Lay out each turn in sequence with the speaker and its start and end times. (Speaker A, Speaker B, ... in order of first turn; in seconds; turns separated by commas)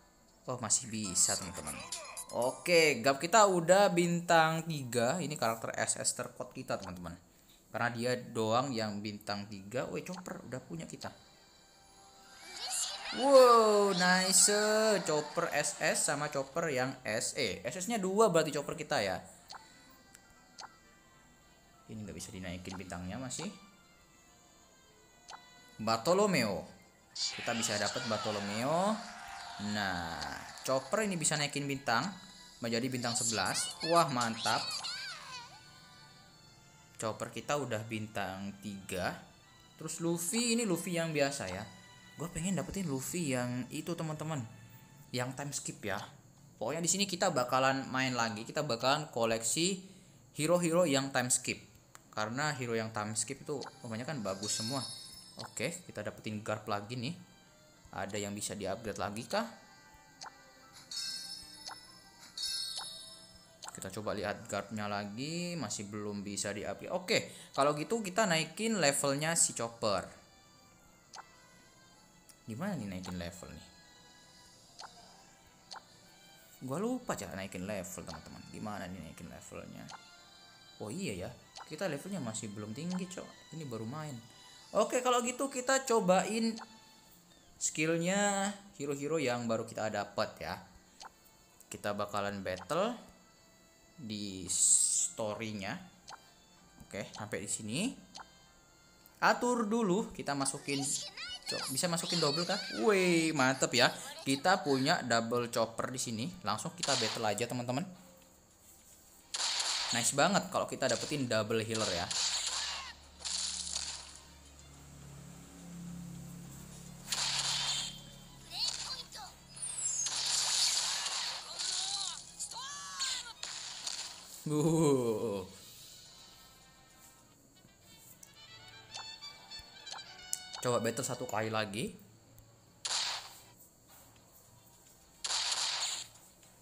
Speaker A: 0.5-7.2, Speaker A: 7.7-11.1, Speaker A: 13.1-19.2, Speaker A: 21.9-23.5, Speaker A: 25.8-26.7, Speaker A: 27.3-29.0, Speaker A: 29.6-34.7, Speaker A: 37.0-39.1, Speaker A: 39.8-41.7, Speaker A: 42.2-44.5, Speaker A: 45.1-46.0, Speaker A: 46.6-54.9, Speaker A: 55.4-57.1, Speaker A: 58.0-59.5, Speaker A: 63.7-70.1, Speaker A: 72.5-73.7, Speaker A: 76.7-79.9, Speaker A: 80.8-84.2, Speaker A: 84.8-86.6, Speaker A: 87.6-90.6, Speaker A: 91.7-93.0, Speaker A: 94.0-95.8, Speaker A: 96.8-98.0, Speaker A: 99.2-100.9, Speaker A: 101.5-107.9, Speaker A: 109.9-112.1, Speaker A: 124.5-125.5, Speaker A: 130.6-131.9